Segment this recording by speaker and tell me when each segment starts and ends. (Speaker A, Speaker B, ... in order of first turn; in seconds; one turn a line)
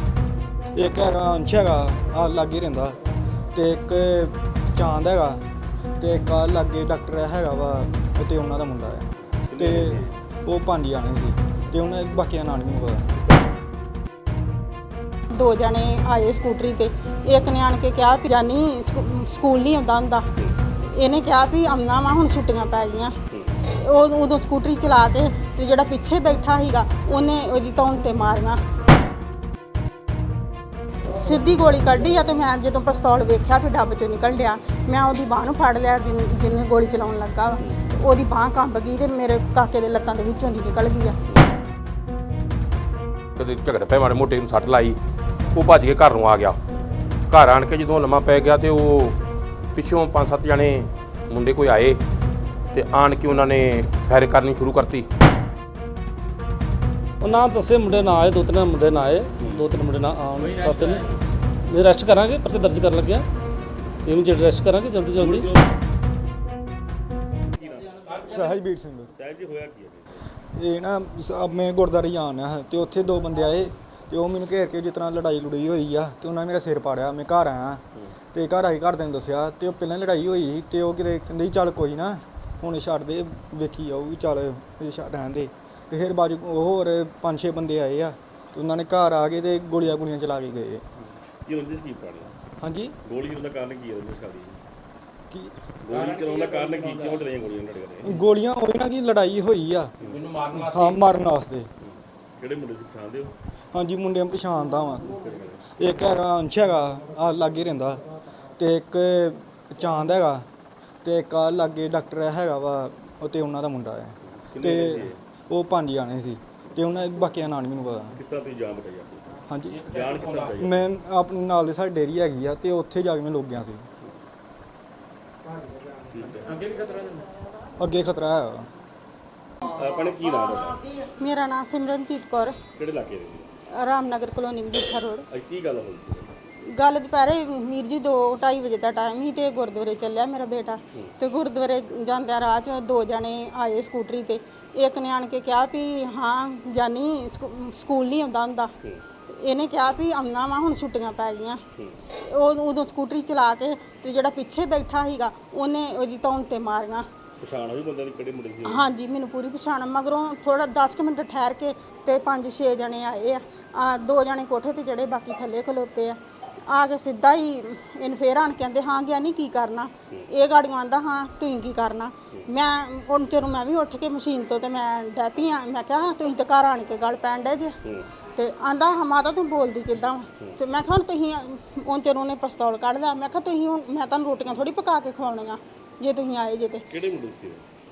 Speaker A: 0.7-3.0
Speaker A: 3.5-5.4
Speaker A: 6.0-13.1
Speaker B: 9.5-10.1
Speaker C: 15.3-20.2
Speaker C: 20.8-28.6
Speaker C: 31.0-41.2
Speaker D: 43.4-45.0
Speaker D: 45.5-46.6
Speaker D: 47.3-49.2
Speaker D: 49.7-52.0
Speaker D: 52.7-55.1
Speaker E: 57.2-61.1
Speaker E: 61.7-63.2
Speaker E: 64.0-65.5
Speaker B: 65.2-65.7
Speaker B: 67.5-68.4
Speaker A: 68.2-69.1
Speaker B: 69.1-70.3
Speaker A: 70.5-77.8
Speaker A: 78.3-90.8
Speaker B: 91.4-92.3
Speaker A: 92.6-92.9
Speaker B: 93.0-94.6
Speaker B: 95.8-98.2
Speaker A: 98.0-99.9
Speaker D: 100.0-101.1
Speaker A: 100.5-101.7
Speaker B: 101.8-103.3
Speaker A: 103.7-105.1
Speaker B: 105.1-105.6
Speaker A: 105.8-108.0
Speaker A: 108.6-110.5
Speaker A: 111.0-118.2
Speaker B: 114.2-115.2
Speaker B: 118.1-119.3
Speaker A: 119.5-119.8
Speaker B: 119.8-120.8
Speaker D: 119.9-120.4
Speaker A: 120.6-123.8
Speaker B: 126.0-126.6
Speaker D: 126.7-127.1
Speaker A: 127.8-128.7
Speaker B: 129.7-130.8
Speaker C: 131.2-132.6
Speaker B: 132.7-133.5
Speaker C: 133.7-135.2
Speaker B: 135.3-136.3
Speaker C: 136.6-148.7
Speaker C: 149.3-157.1
Speaker B: 157.4-158.9
Speaker C: 158.6-177.7
Speaker C: 178.3-186.8
Speaker B: 186.9-187.6